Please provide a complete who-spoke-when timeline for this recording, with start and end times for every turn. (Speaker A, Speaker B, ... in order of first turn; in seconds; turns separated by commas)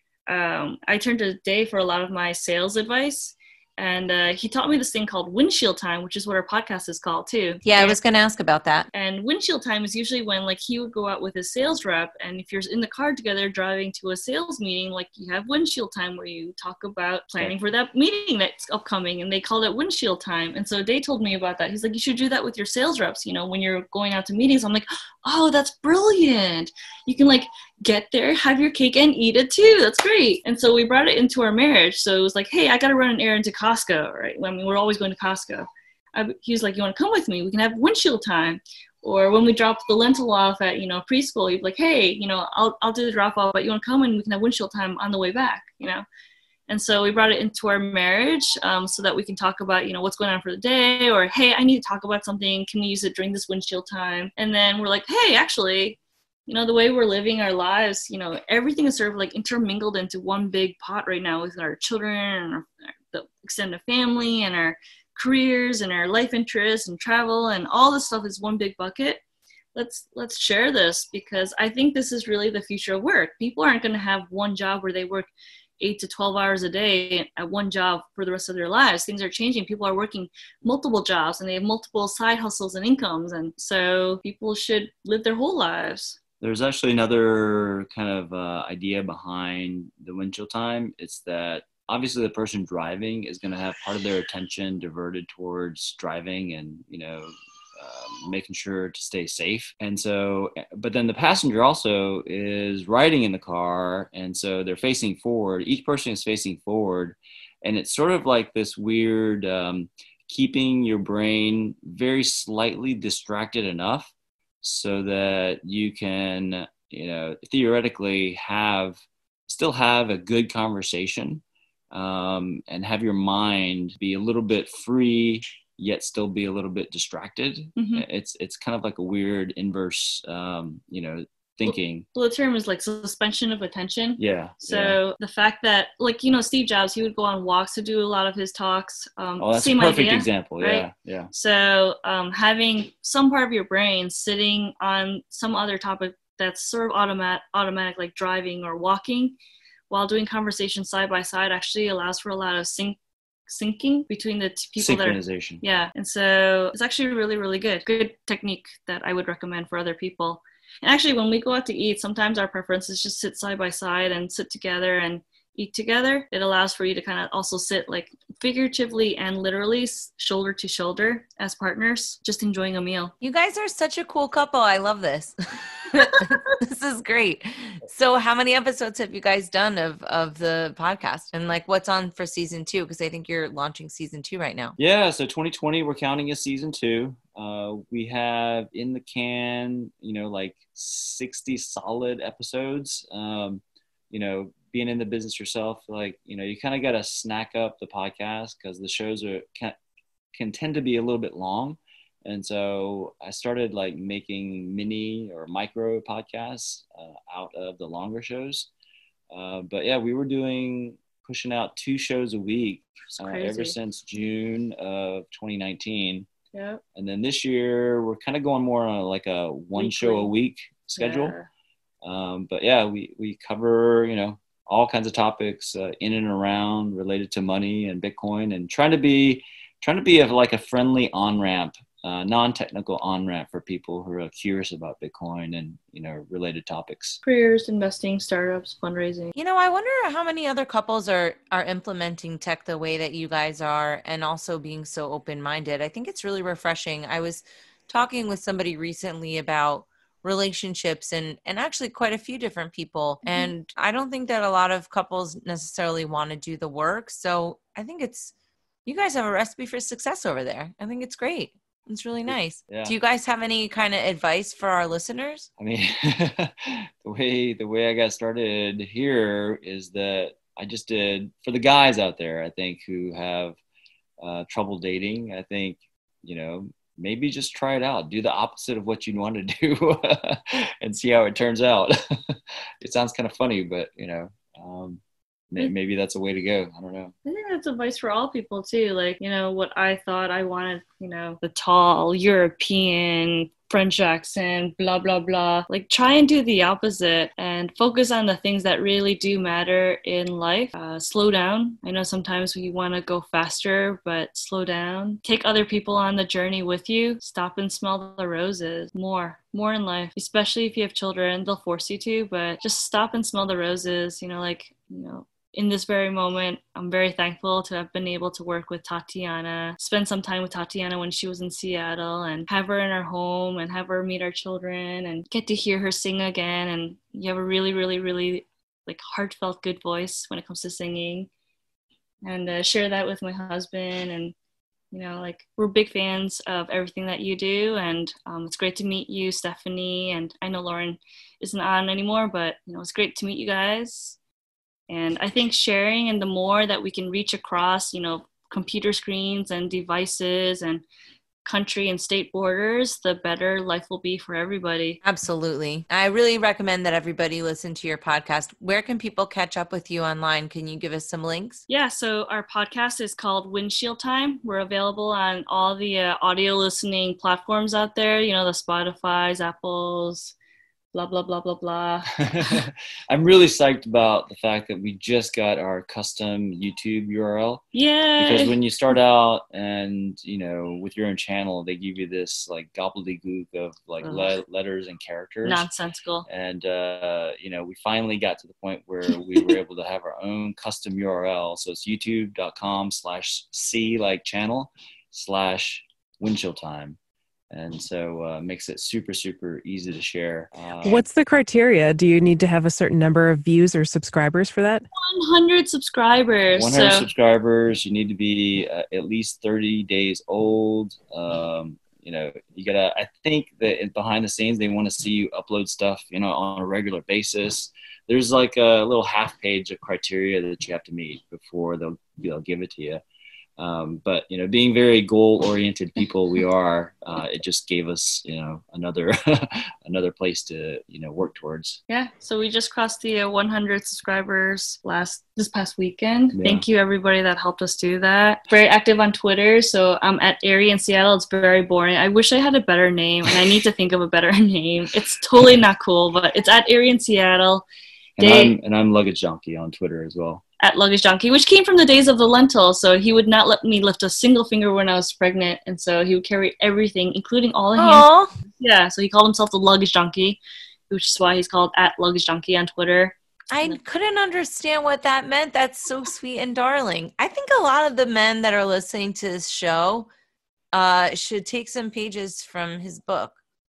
Speaker A: 0.3-8.0, Speaker B: 7.6-8.9, Speaker A: 8.9-46.0, Speaker A: 46.7-69.2, Speaker A: 69.8-86.2, Speaker C: 86.4-132.1, Speaker A: 127.8-128.1, Speaker A: 131.7-149.4, Speaker C: 134.2-135.0, Speaker C: 139.4-141.3, Speaker A: 149.9-173.1, Speaker C: 154.8-155.6, Speaker B: 173.2-184.8, Speaker C: 184.8-199.8, Speaker C: 200.3-208.7, Speaker C: 209.3-216.3, Speaker A: 213.1-213.8, Speaker A: 216.5-216.8, Speaker C: 216.9-221.3, Speaker A: 219.8-220.3, Speaker A: 220.9-221.5, Speaker C: 222.0-237.2, Speaker A: 237.2-239.3, Speaker B: 239.3-258.3, Speaker A: 253.2-253.5, Speaker B: 258.9-265.5, Speaker C: 262.3-262.9, Speaker C: 265.6-273.6, Speaker C: 274.2-287.1, Speaker A: 287.2-331.3, Speaker A: 332.2-334.3, Speaker A: 334.9-344.2, Speaker A: 344.9-350.8, Speaker A: 351.4-355.0, Speaker B: 355.0-361.6, Speaker A: 361.7-370.4, Speaker A: 370.9-372.6, Speaker C: 372.2-377.6, Speaker A: 377.7-378.6, Speaker C: 378.2-385.7, Speaker A: 384.0-384.4, Speaker A: 385.4-386.3, Speaker C: 386.3-397.0, Speaker C: 397.5-401.1, Speaker D: 400.8-404.9, Speaker A: 404.9-407.1, Speaker C: 406.5-423.0, Speaker C: 423.6-431.8, Speaker A: 431.9-447.6, Speaker C: 436.3-436.6, Speaker A: 448.2-448.6, Speaker C: 448.2-450.4, Speaker A: 450.6-458.1, Speaker B: 457.8-458.3, Speaker A: 458.6-463.8, Speaker B: 463.5-470.1, Speaker B: 470.7-473.4